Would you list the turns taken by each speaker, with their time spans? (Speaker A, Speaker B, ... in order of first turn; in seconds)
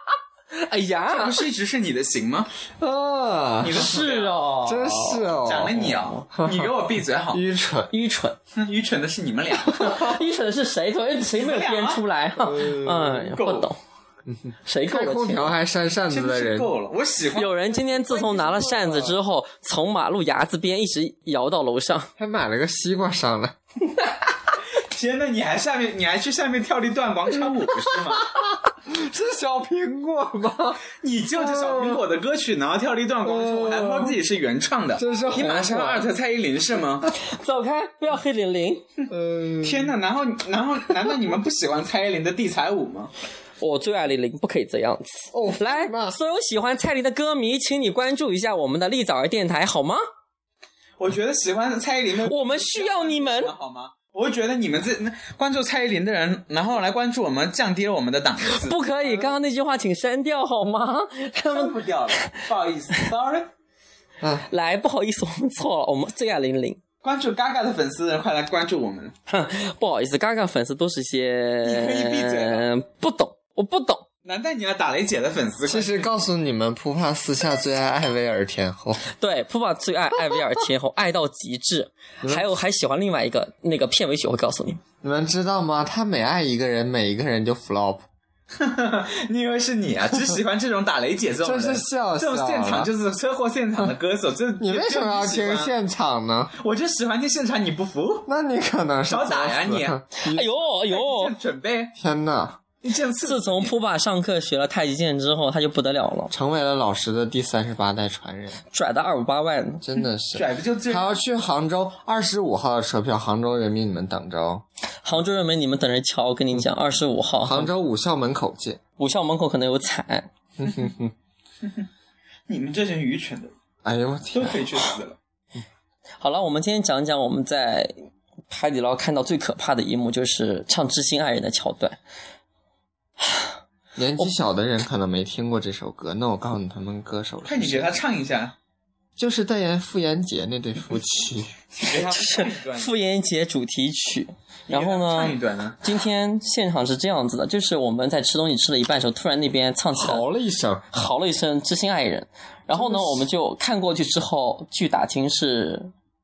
Speaker A: 0.5-1.4, 3.7-5.4, 7.9-8.4, 9.7-13.8, 14.6-15.6, 17.3-22.1, 37.2-38.8, 43.6-50.0, 52.2-53.5, 58.5-61.7, 64.5-66.8, 69.3-74.0, 79.1-84.8, 100.2-101.3, 103.2-106.3, 108.7-109.8, 115.0-117.7, 119.0-120.3, 126.2-127.9, 128.5-132.0, 133.2-133.5, 142.0-150.2, 150.9-155.9
Speaker B: 1.0-2.5, 3.6-4.4, 5.4-7.4, 8.5-9.9, 11.3-12.0, 13.0-13.7, 16.1-17.8, 24.7-28.3, 31.0-37.1, 39.6-43.1, 51.0-59.3, 61.4-63.5, 67.0-69.1, 71.6-72.7, 74.2-76.1, 88.6-95.7, 96.6-98.2, 99.1-100.0, 100.9-101.9, 102.8-103.7, 110.3-111.1, 122.5-123.5, 124.3-125.2, 137.4-138.5, 141.7-142.9, 144.7-145.8
Speaker C: 2.8-4.0, 4.6-7.9, 12.4-13.3, 14.3-16.7, 17.9-19.2, 22.2-23.5, 28.3-30.8, 31.4-32.0, 33.2-34.2, 35.0-36.1, 39.1-40.0, 45.3-46.2, 75.7-79.0, 82.2-82.5, 85.0-88.0, 91.4-92.9, 94.6-96.5, 98.3-100.6, 102.0-102.6, 106.3-108.6, 109.8-114.6, 117.4-118.8, 120.6-121.1, 123.8-124.7, 134.0-137.9, 139.2-141.5, 149.9-150.9, 152.7-153.3